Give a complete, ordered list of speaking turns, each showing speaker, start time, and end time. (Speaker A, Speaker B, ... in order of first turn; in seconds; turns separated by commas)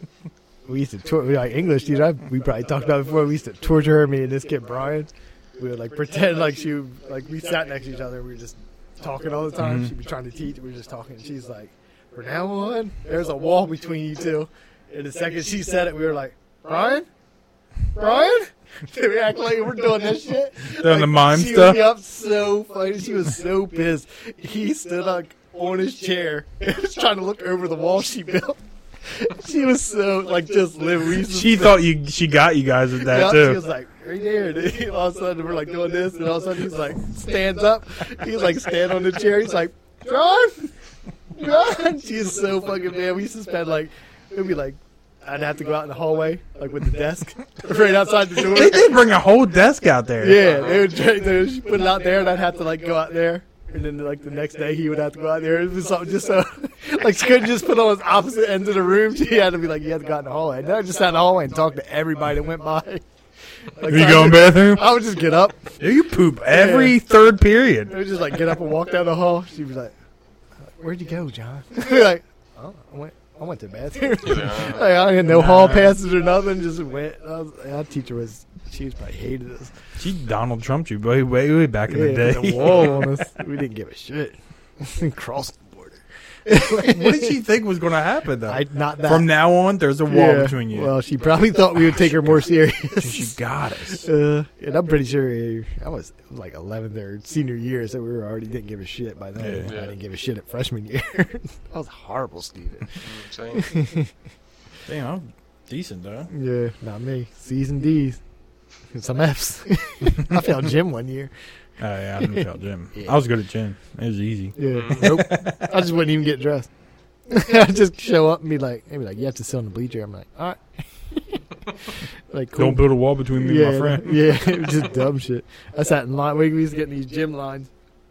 Speaker A: 0.7-17.1, Speaker B: 9.6-9.9, Speaker A: 17.9-31.8, Speaker B: 20.7-21.8, Speaker B: 31.3-33.6, Speaker A: 33.0-40.7, Speaker A: 41.3-49.1, Speaker B: 48.4-50.5, Speaker A: 50.2-63.0, Speaker C: 50.4-50.9, Speaker A: 63.6-65.8, Speaker B: 63.8-64.9, Speaker B: 65.8-67.9, Speaker A: 66.5-67.0, Speaker A: 67.9-69.9, Speaker A: 70.7-79.7, Speaker C: 74.2-75.0, Speaker B: 75.3-76.0, Speaker B: 80.0-83.0, Speaker A: 81.9-87.4, Speaker C: 82.6-83.1, Speaker B: 86.8-90.9, Speaker A: 88.5-89.3, Speaker A: 90.1-93.3, Speaker B: 91.9-92.2, Speaker B: 93.0-94.1, Speaker A: 93.9-103.0, Speaker B: 99.4-99.7, Speaker C: 99.7-100.0, Speaker C: 103.0-103.8, Speaker A: 103.5-104.1, Speaker B: 104.9-106.3, Speaker A: 106.3-108.2, Speaker A: 108.9-111.3, Speaker B: 111.8-115.7, Speaker A: 114.6-116.7, Speaker C: 114.7-115.1, Speaker A: 117.3-127.7, Speaker B: 122.6-124.8